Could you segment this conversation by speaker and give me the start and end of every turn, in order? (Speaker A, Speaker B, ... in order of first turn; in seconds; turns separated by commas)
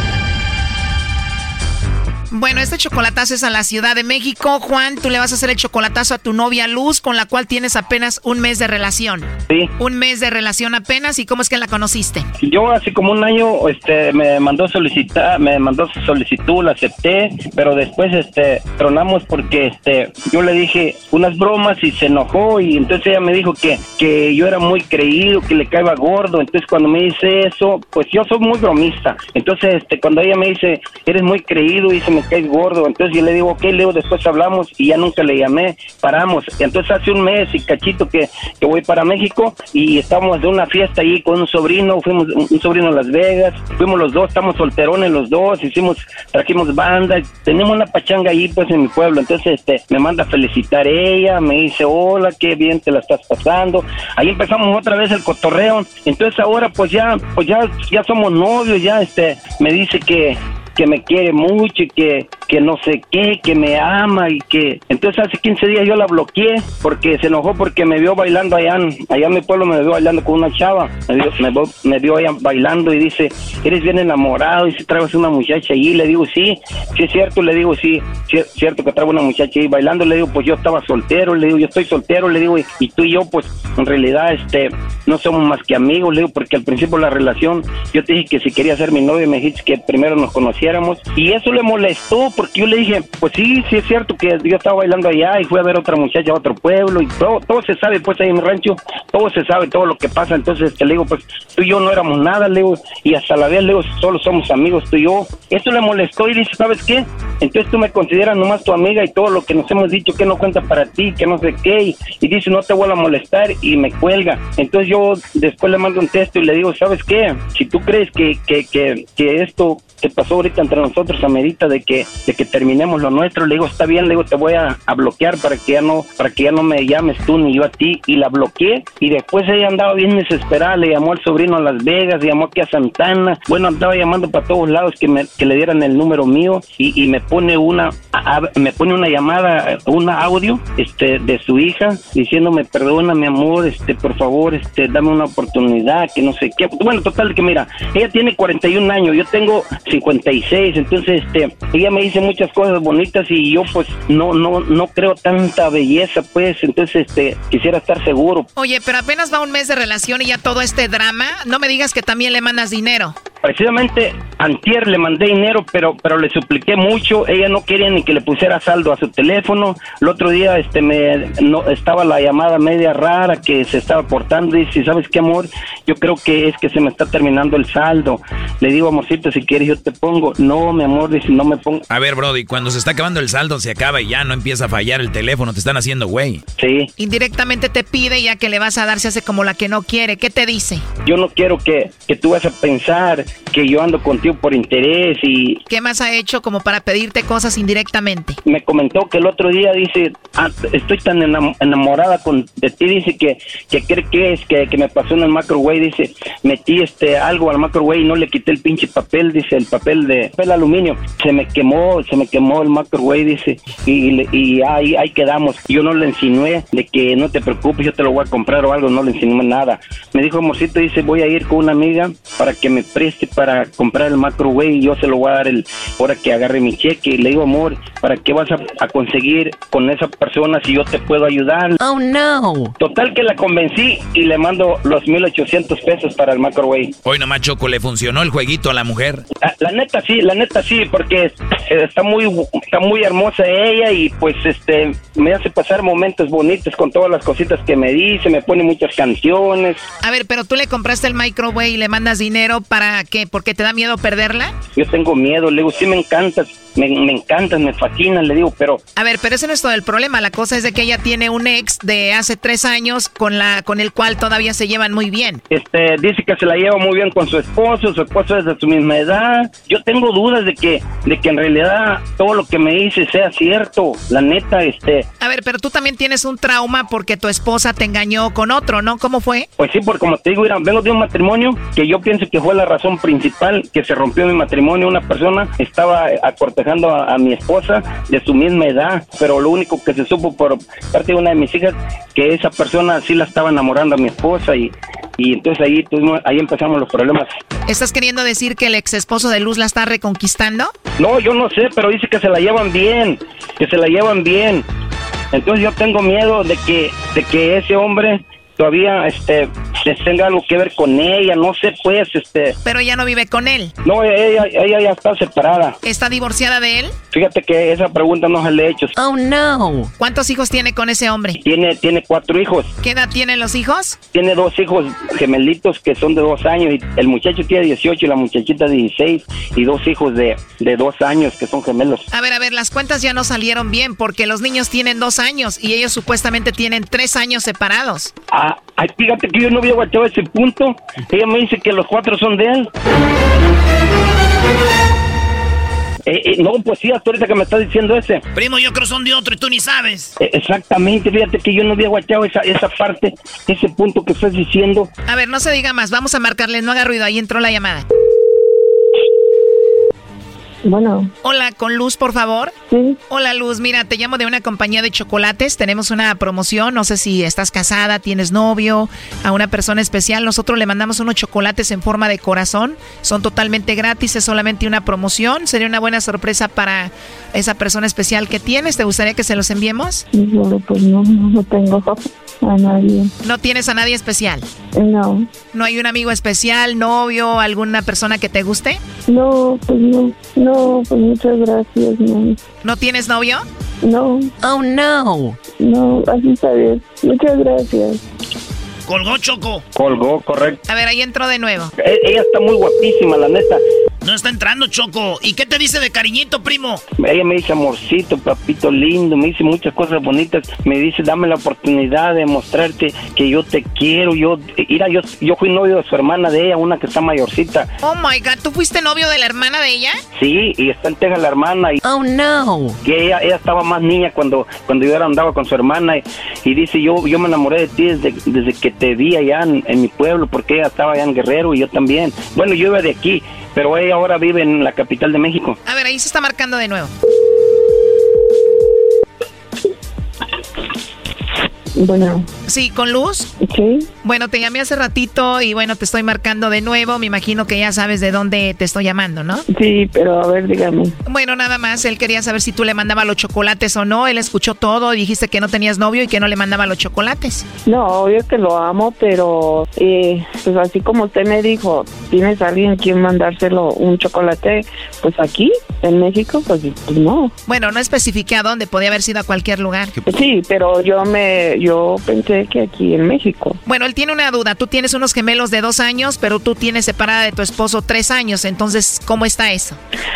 Speaker A: 2.3-12.3, Speaker B: 12.4-158.5, Speaker A: 158.6-163.2, Speaker B: 163.4-181.8, Speaker C: 181.9-186.4, Speaker B: 186.6-186.9, Speaker A: 187.0-190.8, Speaker B: 191.0-195.6, Speaker A: 195.7-198.4, Speaker B: 198.5-231.8, Speaker D: 231.8-232.7, Speaker B: 232.8-236.9, Speaker C: 237.1-239.2, Speaker B: 239.4-249.8, Speaker A: 250.0-254.6, Speaker B: 254.8-258.8, Speaker A: 259.0-265.4, Speaker B: 265.5-275.1, Speaker A: 275.2-279.5, Speaker B: 279.6-297.3, Speaker A: 297.7-300.7, Speaker B: 301.0-304.6, Speaker B: 305.3-312.6, Speaker A: 312.6-313.7, Speaker B: 313.9-315.8, Speaker A: 315.8-316.9, Speaker B: 317.1-318.9, Speaker D: 319.0-319.9, Speaker A: 320.0-321.4, Speaker B: 321.4-322.7, Speaker A: 322.8-324.0, Speaker B: 324.1-332.1, Speaker A: 332.1-338.1, Speaker B: 338.3-342.7, Speaker B: 346.1-348.2, Speaker E: 348.4-350.1, Speaker B: 350.2-354.9, Speaker A: 355.1-357.9, Speaker D: 360.6-361.1, Speaker A: 361.2-362.5, Speaker D: 362.7-363.0, Speaker A: 363.1-380.1, Speaker D: 380.1-383.1, Speaker A: 383.2-384.5, Speaker D: 384.8-385.3, Speaker A: 385.5-388.8, Speaker D: 389.1-392.4, Speaker A: 392.6-393.4, Speaker D: 393.8-398.0, Speaker E: 398.9-399.6, Speaker B: 399.8-400.6, Speaker A: 400.7-401.7, Speaker B: 401.8-403.6, Speaker E: 404.0-406.8, Speaker B: 407.0-417.7, Speaker A: 417.8-420.0, Speaker B: 420.2-421.8, Speaker D: 421.9-422.7, Speaker B: 422.8-435.6, Speaker A: 435.7-436.9, Speaker D: 441.8-442.2, Speaker A: 442.5-443.3, Speaker D: 443.4-443.9, Speaker A: 444.0-449.4, Speaker D: 449.5-450.9, Speaker A: 451.1-457.4, Speaker D: 457.7-467.3, Speaker A: 467.5-469.9, Speaker D: 470.1-473.6, Speaker A: 473.7-479.8